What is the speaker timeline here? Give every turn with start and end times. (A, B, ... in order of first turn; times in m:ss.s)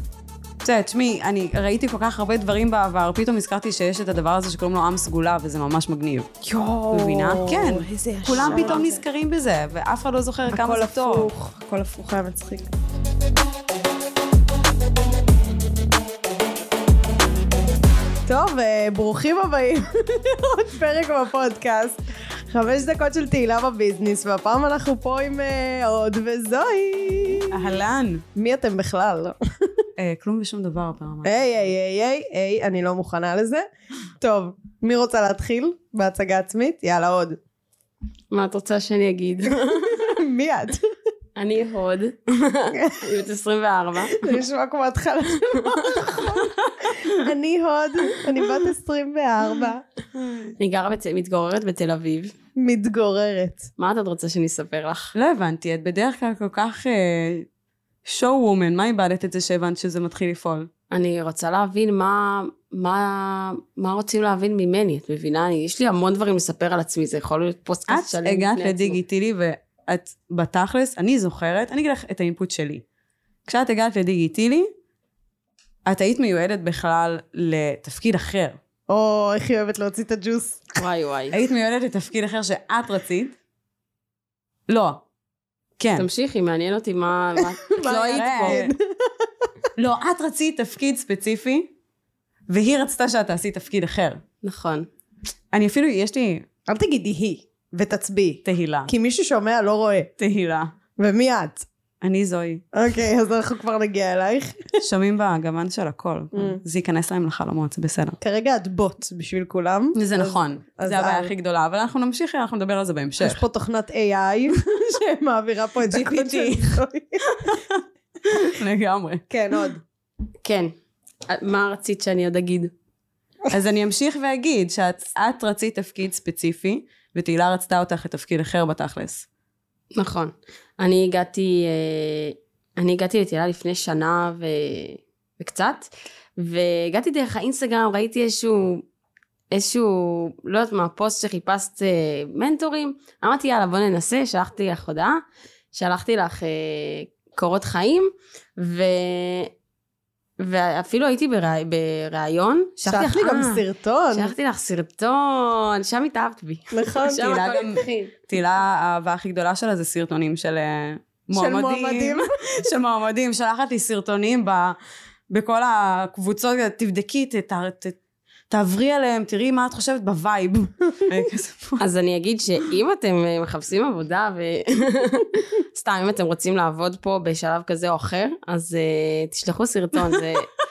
0:00.6-0:06.3 A
0:06.4-0:09.0 B
0:06.9-0:11.3 A
0:10.5-0:12.7 B
0:18.3-0:22.0 B
0:22.5-0:27.7 B
0:27.5-0:28.2 A
0:28.3-0:29.4 B
0:30.0-0:31.7 A
0:31.2-0:33.6 B
0:34.2-0:37.4 B
0:38.3-0:40.0 C
0:39.5-0:40.8 B
0:41.4-0:44.4 C
0:42.7-0:43.2 B
0:44.1-0:49.8 B
0:45.6-0:46.0 C
0:50.6-0:52.3 C
0:52.6-0:53.7 B
0:53.8-0:55.1 C
0:55.1-0:57.5 A
0:58.0-1:00.7 A
1:00.9-1:09.0 C
1:07.9-1:12.8 A
1:13.4-1:14.7 A
1:15.8-1:18.6 A
1:18.9-1:20.8 B
1:20.8-1:21.4 C
1:21.3-1:23.3 A
1:24.7-1:25.0 A
1:25.8-1:26.0 A
1:26.0-1:28.6 C
1:27.6-1:29.3 B
1:28.1-1:28.7 A
1:29.8-1:31.7 A
1:32.5-1:34.2 A
1:34.4-1:34.9 C
1:35.5-1:36.5 A
1:36.7-1:40.1 B
1:38.4-1:38.9 A
1:40.2-1:40.7 A
1:41.0-1:41.6 B
1:42.0-1:42.6 A
1:42.7-1:44.8 B
1:44.8-1:48.2 A
1:48.2-1:51.3 B
1:49.9-1:53.4 A
1:53.2-1:57.5 B
1:55.9-1:59.2 A
1:59.3-1:59.8 B
2:00.4-2:00.7 C
2:01.3-2:02.7 C
2:03.5-2:09.2 A
2:09.9-2:18.8 C
2:19.5-2:25.2 C
2:25.7-2:29.5 C
2:30.4-2:38.2 C
2:32.9-2:34.3 B
2:36.7-2:37.4 B
2:37.2-2:44.8 A
2:41.3-2:42.2 B
2:45.3-2:48.0 A
2:48.5-2:51.8 A
2:51.8-3:00.5 C